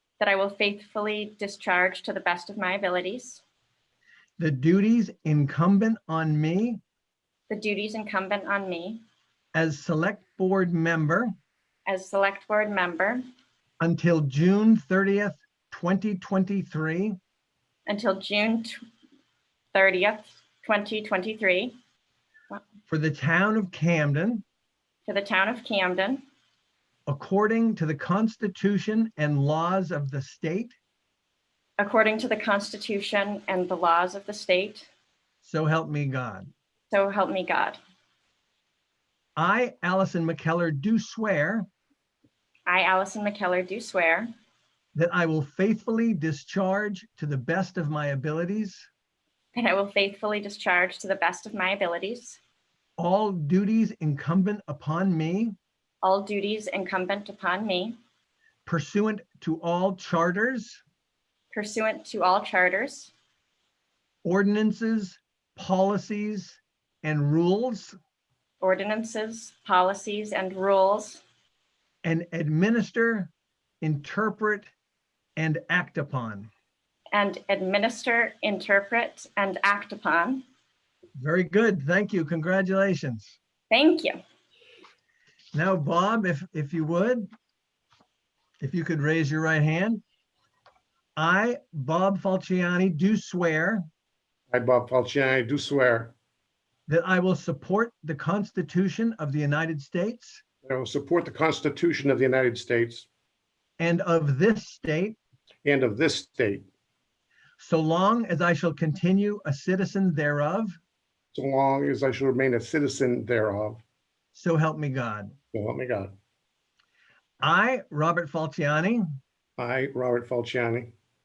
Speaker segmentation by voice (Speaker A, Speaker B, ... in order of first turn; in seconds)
Speaker A: 0.2-3.4, 7.5-9.0, 11.8-13.2, 17.9-18.8, 19.7-21.7, 25.1-26.2, 31.8-34.9, 36.9-37.8, 42.6-44.3, 49.5-52.4, 56.0-58.0, 61.5-63.1, 68.6-71.2, 77.1-80.4, 83.7-84.2
Speaker B: 4.4-6.8, 9.5-11.3, 13.8-17.2, 22.9-24.4, 27.1-30.7, 35.4-36.5, 39.4-41.7, 44.9-48.9, 53.0-55.5, 58.6-60.8, 64.2-68.0, 72.0-74.7, 75.3-76.5, 81.2-83.3, 85.5-87.3, 88.6-90.0, 91.2-93.8, 96.9-100.4, 103.8-105.2, 107.6-110.8, 114.3-115.3, 117.4-119.0
Speaker C: 94.5-96.1, 100.6-103.1, 105.6-106.7, 111.3-113.8, 115.5-116.1, 119.6-120.9